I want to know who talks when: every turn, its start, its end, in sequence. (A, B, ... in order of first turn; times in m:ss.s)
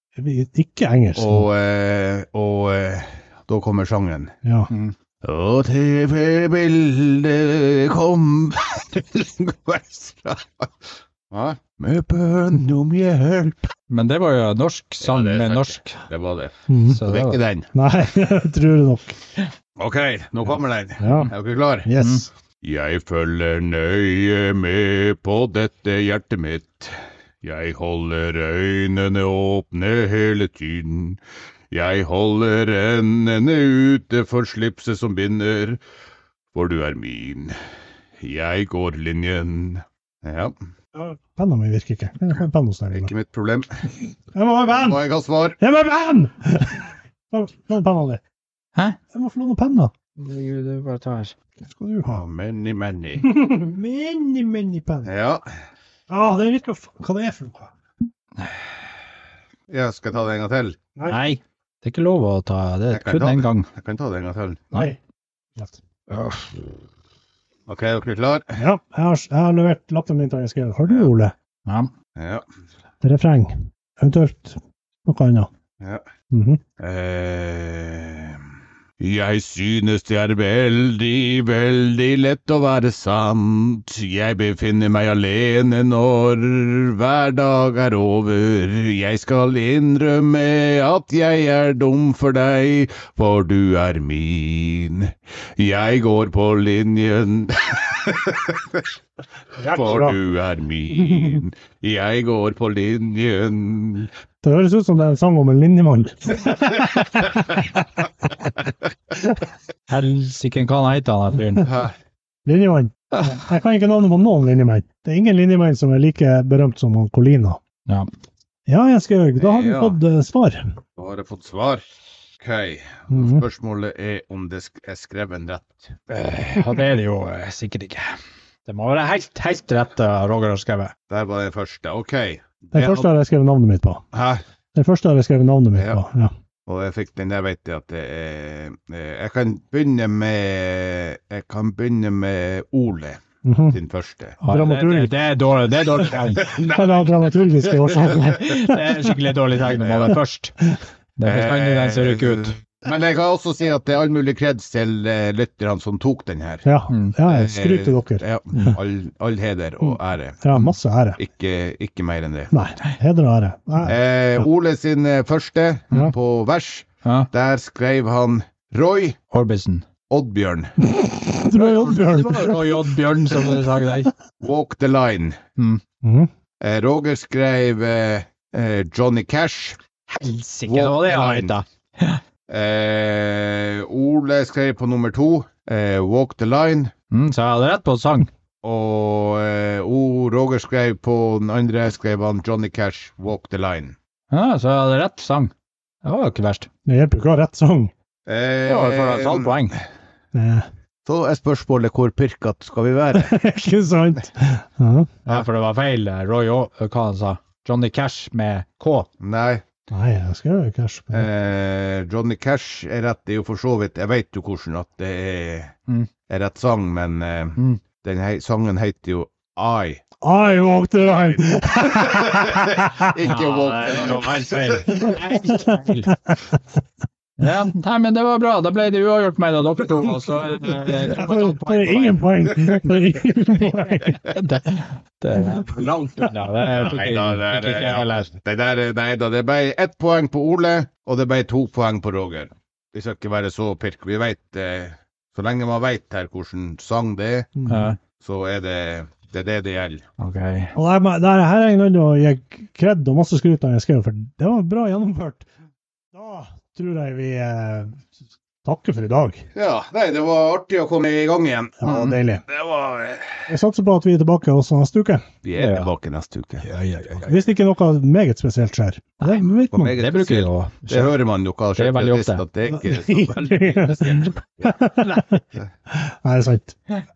0:00.2-0:01.5 A
0:01.2-0:04.3 B
0:04.4-0:04.7 A
0:05.2-0:10.7 B
0:11.3-0:13.7 B
0:13.9-0:16.0 C
0:15.0-0:17.7 B
0:16.7-0:17.0 A
0:16.9-0:17.4 C
0:17.7-0:19.2 A
0:19.8-0:21.9 B
0:21.0-0:21.3 A
0:21.8-0:22.3 A
0:22.0-0:22.2 C
0:22.6-0:31.2 B
0:31.7-0:35.8 B
0:36.5-0:37.6 B
0:38.2-0:40.5 B
0:40.9-0:43.1 A
0:42.9-0:43.8 B
0:44.3-0:45.0 A
0:44.7-0:45.6 B
0:45.6-0:48.2 A
0:49.1-0:49.9 A
0:50.2-0:51.3 C
0:51.7-0:52.2 A
0:52.1-0:53.3 B
0:53.2-0:55.1 A
0:55.0-0:55.4 B
0:56.1-0:57.7 A
0:59.7-1:00.8 B
1:01.1-1:03.7 C
1:02.9-1:04.7 B
1:04.7-1:05.0 A
1:06.1-1:06.5 C
1:07.7-1:08.6 B
1:08.6-1:11.3 A
1:11.6-1:11.9 C
1:12.1-1:12.4 B
1:13.0-1:15.5 A
1:16.3-1:16.6 A
1:16.8-1:18.5 B
1:19.0-1:38.9 B
1:39.6-1:40.2 A
1:39.7-1:44.1 B
1:41.1-1:41.4 A
1:44.4-1:48.0 A
1:49.9-1:51.7 C
1:51.6-1:51.9 B
1:52.4-1:57.6 A
1:58.7-2:00.7 A
1:59.4-2:00.0 B
2:01.0-2:01.8 B
2:02.4-2:06.0 B
2:03.1-2:03.4 A
2:06.1-2:08.1 C
2:08.6-2:10.9 C
2:11.1-2:13.1 B
2:12.7-2:14.0 A
2:14.1-2:14.4 B
2:14.7-2:16.3 A
2:15.8-2:16.0 B
2:16.6-2:24.4 B
2:23.4-2:23.8 A
2:24.4-2:25.1 A
2:24.4-2:26.4 C
2:26.4-2:27.1 B
2:26.5-2:29.1 A
2:28.4-2:30.5 C
2:29.7-2:30.2 B
2:31.2-2:32.5 C
2:31.2-2:36.6 B
2:36.6-2:38.8 A
2:37.2-2:40.4 B
2:40.4-2:41.2 A
2:41.2-2:42.5 B
2:42.5-2:43.9 A
2:43.8-2:49.2 B
2:47.0-2:47.3 C
2:49.3-2:49.8 C
2:50.1-2:50.7 B
2:50.8-2:52.8 A
2:51.9-2:54.1 C
2:54.4-2:55.4 B
2:56.0-2:56.3 A
2:56.6-2:59.8 B
3:00.1-3:02.2 C
3:00.7-3:01.5 B
3:02.5-3:06.9 B
3:07.1-3:08.3 C
3:08.6-3:14.0 B
3:14.3-3:15.5 C
3:16.0-3:16.7 C
3:16.8-3:17.9 A
3:18.2-3:19.7 B
3:18.7-3:19.8 C
3:20.3-3:20.6 A
3:21.0-3:23.4 B
3:23.1-3:25.2 A
3:25.2-3:29.1 C
3:29.2-3:29.6 B
3:29.9-3:31.3 A
3:31.1-3:35.7 B
3:36.3-3:40.0 B
3:40.2-3:43.1 A
3:42.0-3:45.0 B
3:43.2-3:46.2 C
3:44.9-3:46.4 A
3:47.4-3:52.8 C
3:51.1-3:54.2 A
3:53.8-3:58.3 C
3:55.6-4:07.5 B
4:07.6-4:07.8 A
4:07.7-4:08.0 C
4:08.2-4:10.0 B
4:10.2-4:10.7 C
4:10.7-4:15.4 A
4:16.1-4:18.0 A
4:18.6-4:19.4 A
4:19.5-4:21.8 B
4:21.8-4:22.4 A
4:21.8-4:22.1 C
4:22.5-4:23.4 B
4:23.5-4:25.2 A
4:25.4-4:26.7 B
4:25.5-4:25.9 C
4:26.6-4:27.4 C
4:27.2-4:30.0 A
4:29.2-4:31.1 C
4:29.7-4:34.8 B
4:31.8-4:32.4 C
4:32.7-4:36.8 A